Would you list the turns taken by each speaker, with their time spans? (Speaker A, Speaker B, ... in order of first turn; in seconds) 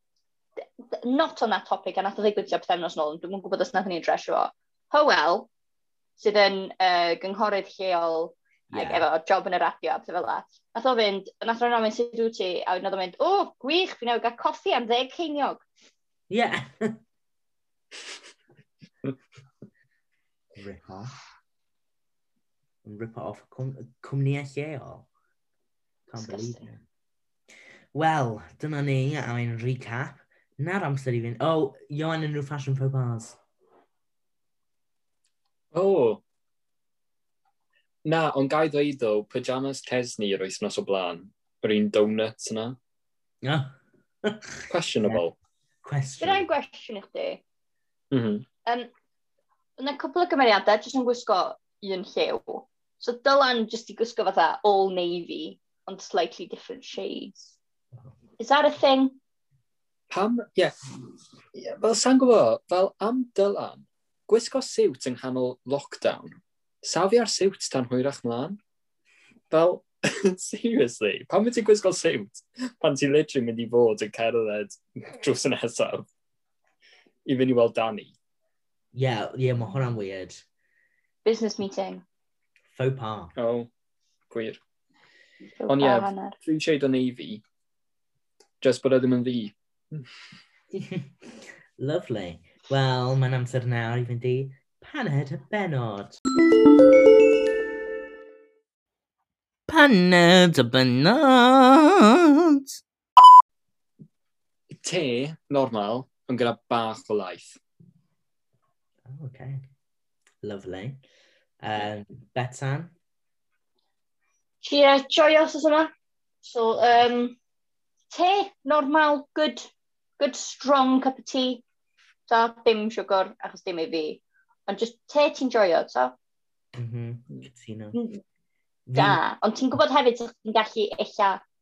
Speaker A: 0.9-5.5, 6.2-15.6, 26.2-26.6, 46.2-47.4, 49.8-57.6, 58.4-59.2, 81.2-82.0, 85.6-86.3, 114.6-115.9, 116.4-117.4, 118.1-119.7, 120.2-121.6, 122.3-126.1, 127.9-128.2, 128.9-131.4
Speaker B: 8.7-9.0, 16.3-17.0, 20.6-21.1, 22.8-25.1, 26.1-26.8, 27.9-33.4, 43.4-45.2, 45.8-46.5, 78.9-80.4, 82.7-83.3, 90.7-96.2, 99.7-102.8, 109.0-109.6, 110.4-111.0, 111.6-112.9, 126.7-128.0, 128.9-129.2
Speaker C: 35.7-36.2, 38.0-42.8, 44.7-45.3, 48.1-48.4, 60.1-60.7, 61.5-68.6, 69.5-76.1, 77.2-78.1, 83.3-83.7, 84.3-84.6, 85.7-87.4, 88.6-90.1, 104.8-107.6